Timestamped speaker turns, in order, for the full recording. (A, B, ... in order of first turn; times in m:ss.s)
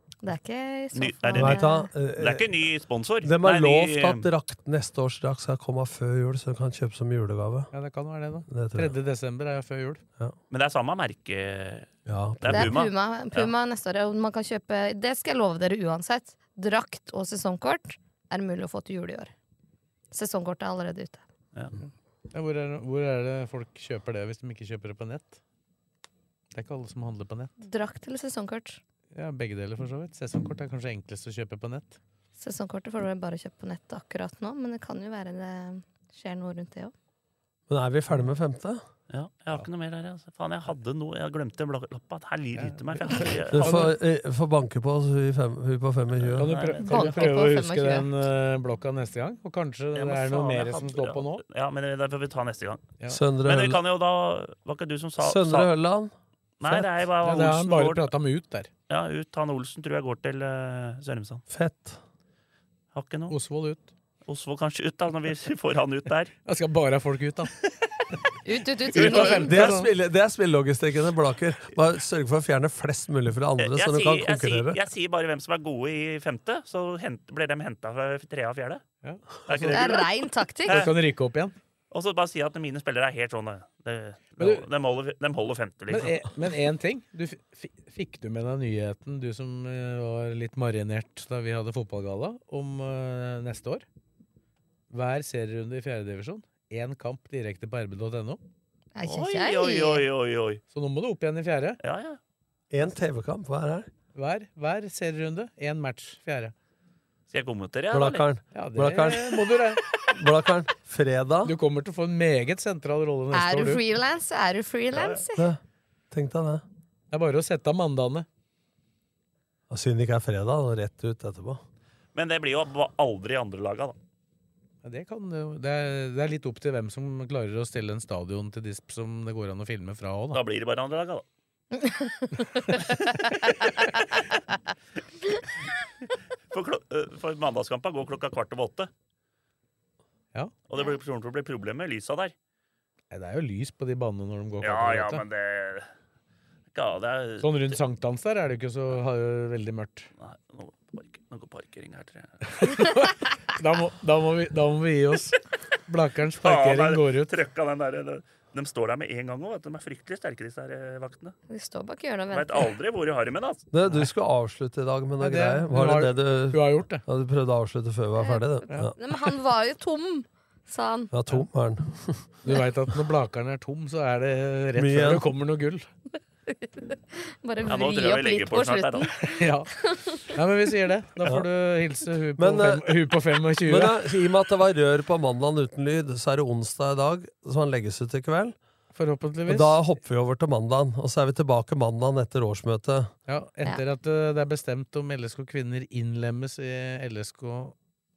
0:00.2-0:01.9 A
0:01.0-0:01.6 B
0:01.4-0:02.5 C
0:02.2-0:04.3 B
0:03.2-0:07.7 C
0:07.7-0:10.0 D
0:08.5-0:09.0 C
0:10.5-0:11.9 B
0:12.1-0:12.7 C
0:12.4-0:13.5 B
0:12.5-0:19.3 A
0:20.1-0:21.2 A
0:21.8-0:25.4 D
0:26.5-0:27.5 D
0:27.6-0:28.8 A
0:29.1-0:32.0 D
0:32.4-0:36.9 A
0:37.7-0:38.8 C
0:39.1-0:43.9 B
0:42.6-0:44.0 D
0:43.5-0:46.6 C
0:46.3-0:51.4 D
0:46.4-0:47.3 B
0:46.8-0:48.1 A
0:50.0-0:52.8 B
0:53.1-0:53.8 C
0:53.4-0:55.7 B
0:55.2-0:56.1 C
0:56.6-0:58.1 B
0:56.7-0:58.7 D
0:58.9-1:01.4 B
1:01.5-1:02.0 C
1:02.9-1:03.4 B
1:03.3-1:03.9 D
1:04.3-1:06.3 B
1:06.4-1:07.5 D
1:08.4-1:09.7 A
1:08.9-1:09.9 D
1:09.0-1:14.8 C
1:09.0-1:09.3 B
1:13.6-1:18.8 B
1:19.0-1:20.1 D
1:19.5-1:20.1 B
1:19.7-1:20.8 A
1:20.7-1:21.0 B
1:20.7-1:21.6 D
1:21.9-1:26.2 B
1:24.4-1:24.7 D
1:25.9-1:33.9 D
1:34.9-1:38.4 D
1:39.0-1:40.0 A
1:39.0-1:40.6 B
1:40.7-1:41.8 D
1:41.8-1:42.2 B
1:42.7-1:43.9 C
1:44.2-1:46.5 D
1:47.3-1:48.2 B
1:47.9-1:49.6 C
1:48.5-1:49.8 D
1:50.1-1:51.6 C
1:51.4-1:53.8 D
1:53.3-1:55.5 A
1:54.9-1:55.2 B
1:56.1-1:56.6 C
1:57.1-1:58.3 D
1:59.7-2:01.6 C
2:02.2-2:04.0 B
2:04.8-2:10.4 D
2:10.3-2:11.2 B
2:11.8-2:14.0 A
2:16.5-2:18.9 B
2:20.7-2:22.3 B
2:23.1-2:25.2 D
2:24.6-2:25.9 B
2:26.7-2:27.8 B
2:27.4-2:30.1 D
2:30.2-2:32.4 B
2:32.5-2:37.3 D
2:36.4-2:41.4 B
2:41.5-2:42.7 A
2:42.3-2:43.6 B
2:43.7-2:49.0 C
2:45.2-2:47.0 D
2:48.2-2:51.1 A
2:48.7-2:49.0 D
2:51.1-2:52.3 C
2:52.4-2:55.9 D
2:54.8-2:55.3 C
2:56.5-3:00.3 A
2:57.6-2:59.1 B
2:59.2-3:04.2 D
3:01.2-3:01.5 C
3:02.4-3:03.1 C
3:03.6-3:08.6 C
3:08.9-3:09.8 D
3:09.4-3:13.1 C
3:13.3-3:17.8 D